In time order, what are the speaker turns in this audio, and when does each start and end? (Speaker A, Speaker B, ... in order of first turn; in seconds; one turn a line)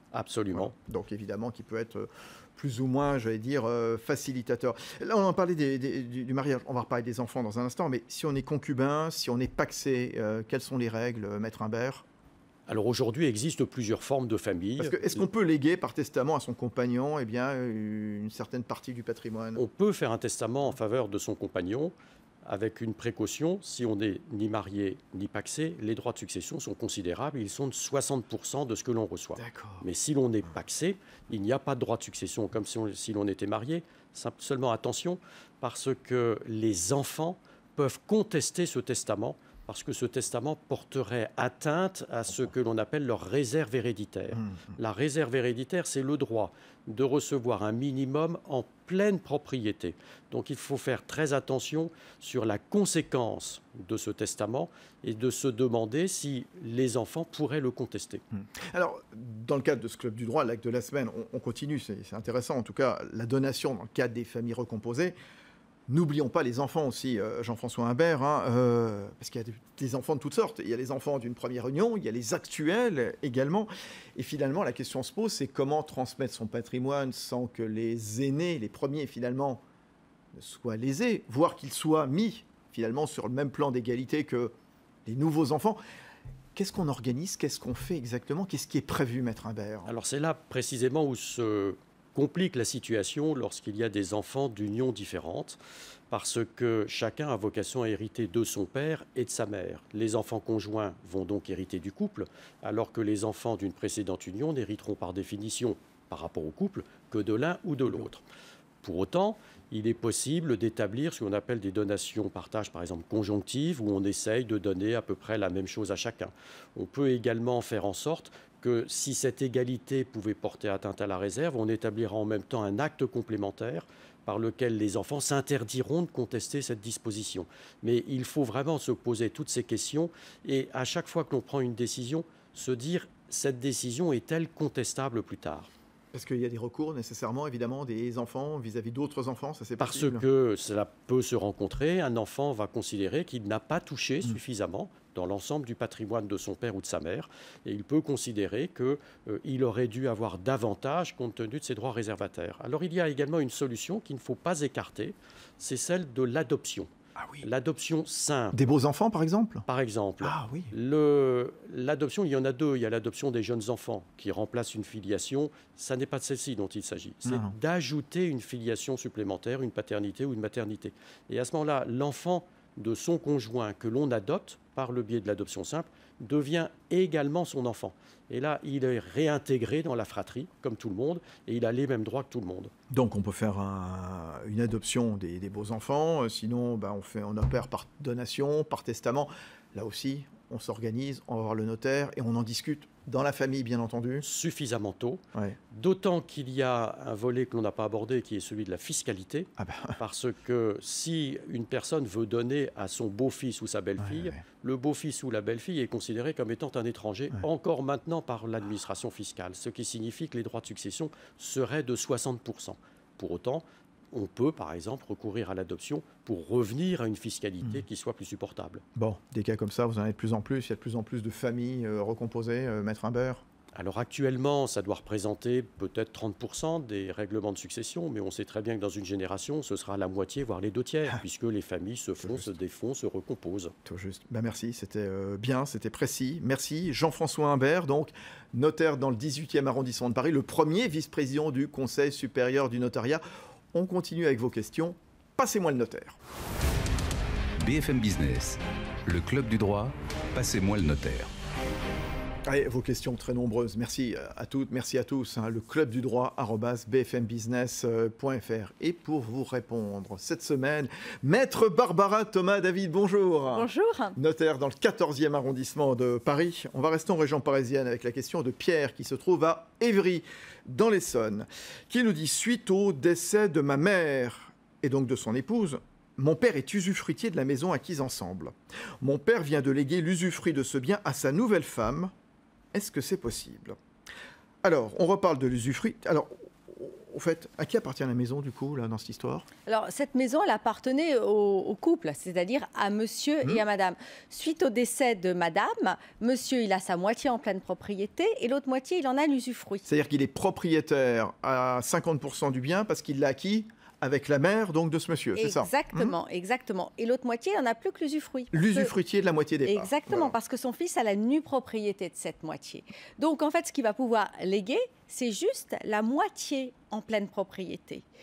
Speaker A: 0.1-0.7
Speaker B: 0.5-12.1
Speaker A: 12.7-15.2
Speaker B: 14.8-19.6
Speaker A: 19.6-21.9
Speaker A: 22.4-58.2
Speaker B: 29.4-29.9
Speaker B: 44.3-44.8
Speaker B: 58.4-65.2
Speaker B: 65.9-79.6
Speaker B: 80.3-84.5
Speaker B: 85.1-85.8
Speaker B: 86.5-89.9
Speaker A: 89.9-95.6
Speaker A: 96.1-108.2
Speaker A: 108.8-135.7
Speaker B: 136.1-140.2
Speaker A: 139.8-156.9
Speaker B: 157.2-157.4
Speaker A: 157.4-158.7
Speaker B: 158.5-159.7
Speaker A: 159.7-182.7
Speaker B: 160.2-160.7
Speaker B: 167.3-167.6
Speaker B: 182.9-194.2
Speaker A: 194.2-218.8
Speaker B: 199.6-200.0
Speaker B: 204.0-204.4
Speaker B: 219.0-223.4
Speaker A: 223.8-233.7
Speaker B: 233.9-246.2
Speaker C: 247.6-251.3
Speaker B: 252.5-282.1
Speaker D: 263.5-264.2
Speaker B: 282.7-283.8
Speaker B: 284.6-289.5
Speaker D: 289.7-299.9
Speaker B: 299.9-306.1
Speaker D: 305.4-308.9
Speaker B: 308.5-310.3
Speaker D: 309.6-318.0